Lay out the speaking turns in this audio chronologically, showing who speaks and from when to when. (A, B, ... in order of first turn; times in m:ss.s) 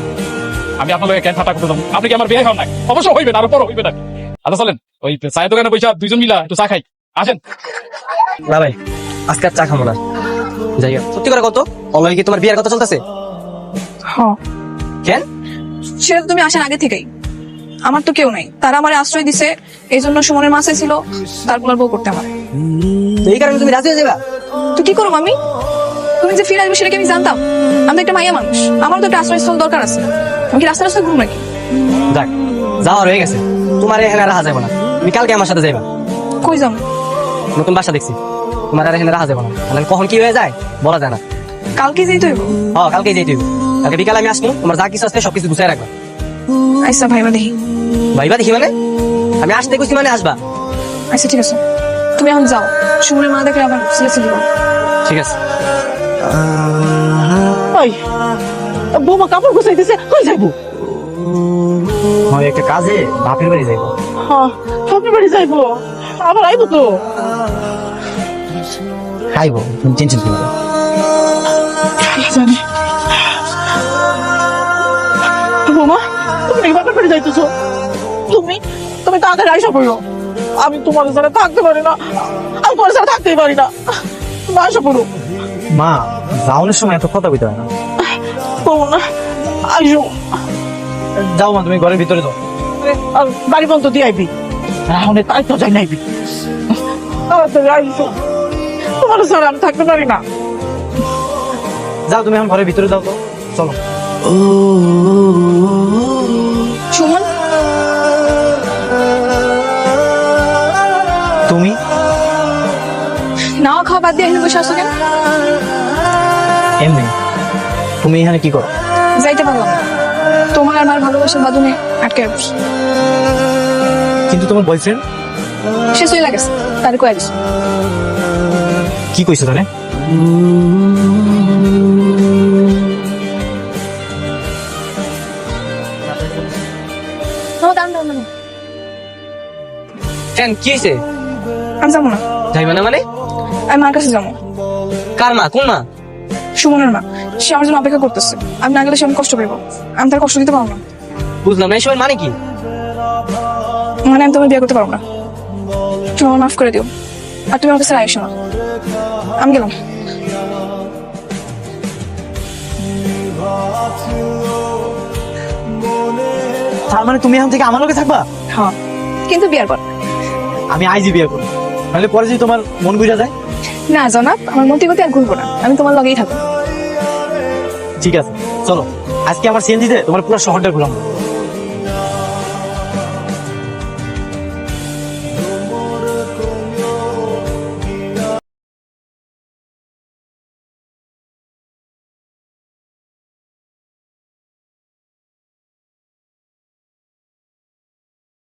0:00.8-0:07.4 A
0:08.5-0:08.8 B
0:09.3-0:10.0 B
0:10.8-0:13.0 B
0:14.1-0:14.4 C
0:16.0-0:17.1 C
0:17.8-0:22.3 C
0:23.2-0:24.2 B
0:24.8-0:25.4 C
0:26.2-0:31.4 C
0:32.8-0:35.9 B
0:36.4-0:36.8 C
0:37.6-0:38.2 B
0:38.7-0:41.2 B
0:41.8-0:42.6 C
0:42.7-0:45.9 B
0:46.8-0:47.6 C
0:48.2-0:48.7 B
0:49.4-0:50.4 B
0:51.1-0:51.6 C
0:52.2-0:54.5 C
0:55.0-0:55.4 B
0:57.7-0:58.0 D
0:58.9-1:00.6 D
1:02.3-1:03.9 E
1:04.2-1:07.0 D
1:09.3-1:10.5 E
1:12.0-1:12.6 D
1:15.6-1:17.5 D
1:18.3-1:20.0 D
1:20.6-1:25.1 D
1:25.7-1:27.7 E
1:28.0-1:29.0 D
1:29.6-1:30.2 D
1:31.2-1:32.4 E
1:32.8-1:34.3 D
1:34.9-1:36.0 D
1:36.7-1:38.2 D
1:39.0-1:40.2 D
1:42.1-1:43.8 E
1:46.9-1:47.3 C
1:51.5-1:51.8 E
1:53.6-1:54.9 C
1:56.8-1:57.1 E
1:58.0-1:58.7 E
1:59.2-1:59.8 C
2:00.5-2:02.5 C
2:04.3-2:05.0 E
2:05.9-2:07.3 C
2:09.1-2:09.7 E
2:17.6-2:18.3 C
2:20.4-2:21.0 B
2:21.8-2:22.2 C
2:22.5-2:23.0 B
2:23.7-2:24.4 C
2:25.2-2:25.8 B
2:26.6-2:30.8 C
2:31.4-2:32.3 B
2:34.1-2:35.0 C
2:36.2-2:36.9 C
2:37.5-2:38.3 C
2:39.4-2:39.8 C
2:46.9-2:48.2 E
2:49.3-2:49.9 C
2:50.7-2:53.3 E
2:53.9-2:56.4 C
2:58.0-3:01.0 E